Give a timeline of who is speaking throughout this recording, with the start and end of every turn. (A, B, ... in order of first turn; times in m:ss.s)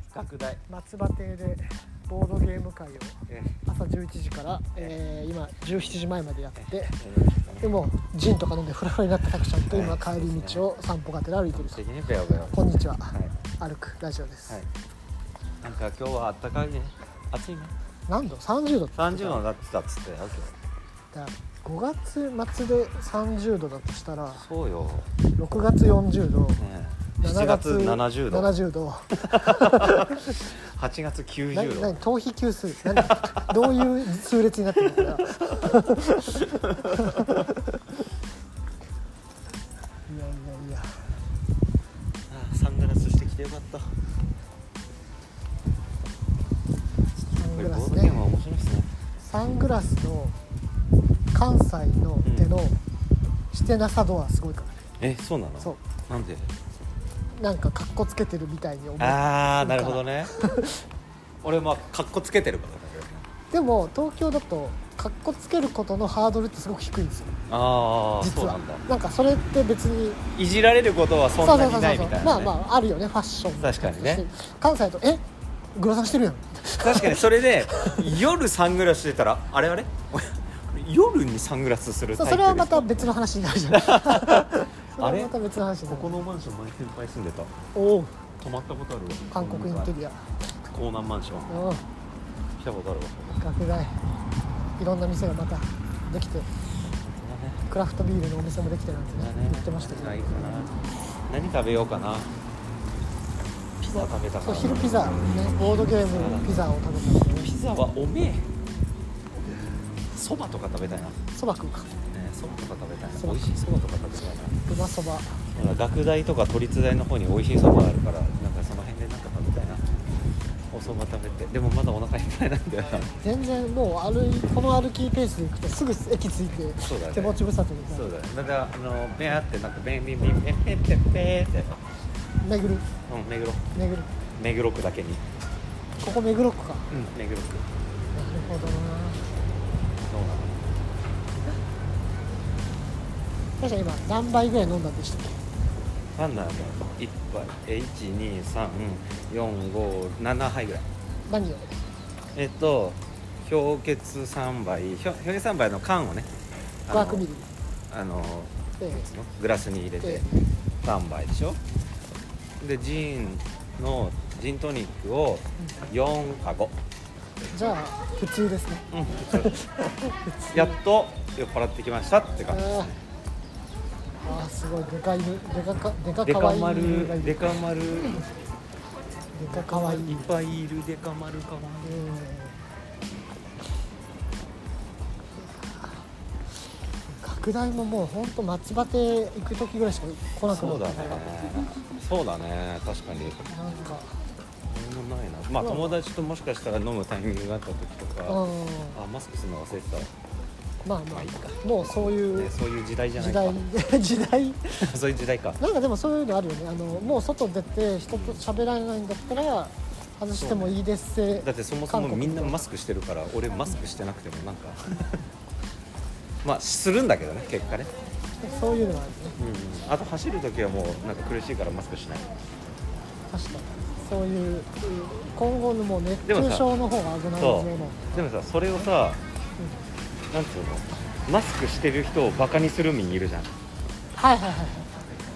0:00.1-0:00.6 A
0:00.7-0:06.9 B
0:03.3-0:03.5 A
0:06.6-0:07.7 A
0:07.6-0:11.8 B
0:09.6-0:10.6 A
0:11.5-0:13.3 A
0:12.5-0:14.6 B
0:15.6-0:17.7 A
0:18.1-0:19.4 B
0:19.0-0:20.5 A
0:21.1-0:24.4 B
0:24.4-0:25.1 A
0:25.4-0:26.6 B
0:26.6-0:28.5 A
0:27.2-0:30.4 B
0:29.2-0:32.0 A
0:31.5-0:37.4 B
0:32.8-0:33.9 A
0:34.9-0:35.4 A
0:36.3-0:37.3 A
0:40.1-0:40.9 B
0:42.3-0:43.9 A
0:47.3-0:48.9 A
0:47.4-0:48.2 B
0:49.2-0:50.3 B
0:51.3-0:52.8 B
0:52.2-0:52.5 A
0:53.5-0:54.8 B
0:55.0-0:56.5 A
0:57.4-1:00.8 B
0:59.0-1:00.3 A
1:01.4-1:03.2 A
1:03.5-1:07.4 B
1:07.5-1:08.8 A
1:08.2-1:10.2 B
1:10.4-1:12.5 A
1:11.4-1:15.2 B
1:13.6-1:14.2 A
1:15.8-1:18.0 B
1:16.8-1:23.1 A
1:22.2-1:26.2 B
1:23.7-1:25.3 A
1:25.8-1:27.5 A
1:27.7-1:28.1 B
1:28.4-1:29.9 A
1:29.3-1:30.2 B
1:30.7-1:31.6 A
1:31.5-1:31.8 B
1:32.6-1:33.4 A
1:33.4-1:34.0 B
1:34.8-1:36.5 B
1:37.0-1:37.6 A
1:37.7-1:40.8 B
1:39.2-1:42.3 A
1:43.8-1:45.2 A
1:43.9-1:47.5 B
1:46.0-1:46.5 A
1:47.3-1:48.5 A
1:50.0-1:51.2 A
1:51.3-1:52.0 B
1:52.1-1:54.6 A
1:53.2-1:53.4 B
1:54.7-1:55.4 B
1:55.5-1:59.8 A
2:00.7-2:03.1 A
2:03.2-2:08.1 B
2:06.8-2:07.4 A
2:07.9-2:11.8 A
2:12.4-2:12.9 B
2:13.1-2:13.6 A
2:13.7-2:14.1 B
2:14.4-2:15.2 A
2:16.0-2:16.9 B
2:16.9-2:17.6 A
2:18.1-2:19.2 B
2:20.1-2:20.5 A
2:23.6-2:25.4 B
2:26.2-2:30.9 A
2:31.3-2:31.7 B
2:32.3-2:36.3 A
2:36.9-2:37.3 A
2:36.9-2:37.4 B
2:37.9-2:40.3 A
2:38.8-2:39.1 B
2:40.8-2:41.6 A
2:42.6-2:46.7 A
2:47.5-2:50.7 B
2:48.9-2:49.7 A
2:50.5-2:53.0 A
2:52.5-2:52.9 B
2:54.2-2:57.5 B
2:56.2-2:58.3 A
2:59.3-3:00.3 B
2:59.5-3:02.0 A
3:01.8-3:02.5 B
3:05.6-3:05.9 B
3:07.2-3:11.2 B
3:10.5-3:13.5 A
3:13.5-3:14.1 B
3:14.7-3:20.1 A
3:15.6-3:16.0 B
3:18.3-3:19.0 B
3:20.8-3:22.5 B
3:21.1-3:23.6 A
3:23.2-3:24.9 B
3:24.8-3:25.6 A
3:25.6-3:32.6 B
3:28.1-3:28.4 A
3:30.4-3:30.8 A
3:31.4-3:35.2 A
3:36.4-3:37.9 A
3:38.4-3:39.4 B
3:39.4-3:42.3 A
3:43.3-3:48.2 B
3:46.2-3:46.7 A
3:47.4-3:49.2 A
3:50.3-3:53.5 A
3:54.2-3:54.9 B